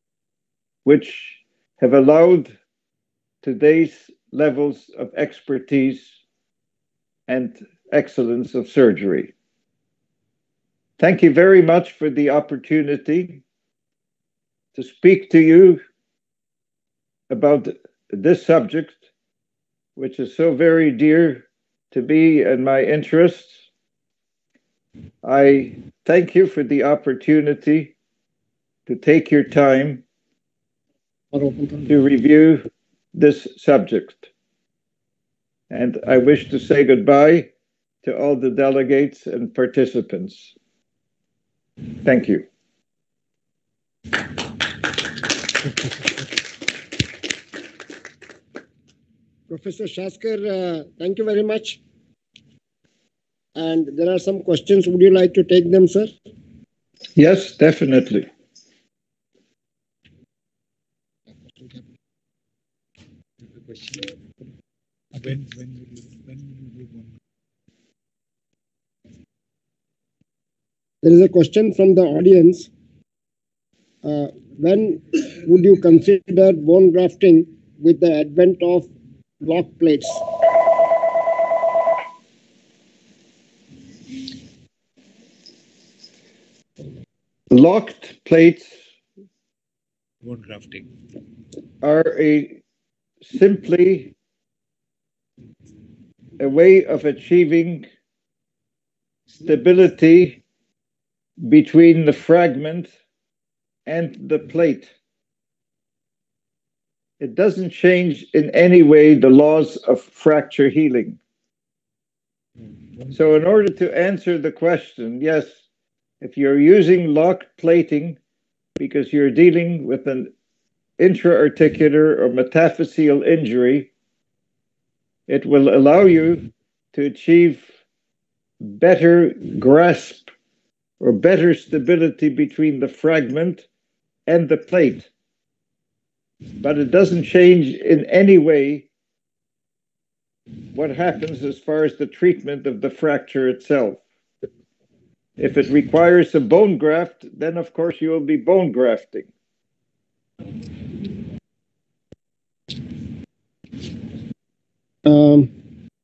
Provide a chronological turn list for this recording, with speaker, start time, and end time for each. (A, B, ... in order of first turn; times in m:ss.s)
0:00.8-0:02.6 A
0:03.4-0:06.1 A
0:07.3-0:09.3 A
0:11.0-0:13.4 A
0:14.8-0:15.8 A
0:17.3-0:19.0 A
0:20.0-0:23.6 A
0:25.2-0:27.9 A
0:28.9-0:30.0 A
0:31.3-0:31.7 B
0:31.9-0:34.3 A
0:35.7-0:37.5 A
0:38.0-0:40.5 A
0:42.0-0:42.4 A
0:49.5-0:51.8 B
0:53.6-0:56.1 B
0:57.2-0:58.3 A
1:05.2-1:07.1 C
1:11.0-1:12.7 B
1:14.0-1:18.9 B
1:19.4-1:20.3 B
1:27.5-1:28.8 A
1:30.2-1:30.8 C
1:31.8-1:32.6 A
1:33.2-1:34.1 A
1:36.4-1:37.9 A
1:39.4-1:40.4 A
1:41.4-1:42.9 A
1:43.9-1:44.9 A
1:47.2-1:51.2 A
1:53.1-1:55.6 A
1:56.2-1:58.2 A
1:58.8-2:00.3 A
2:01.0-2:03.9 A
2:05.3-2:07.7 A
2:08.6-2:10.3 A
2:11.0-2:13.6 A
2:14.3-2:15.1 A
2:16.6-2:18.9 A
2:20.7-2:24.0 A
2:25.4-2:29.3 A
2:35.1-2:35.5 B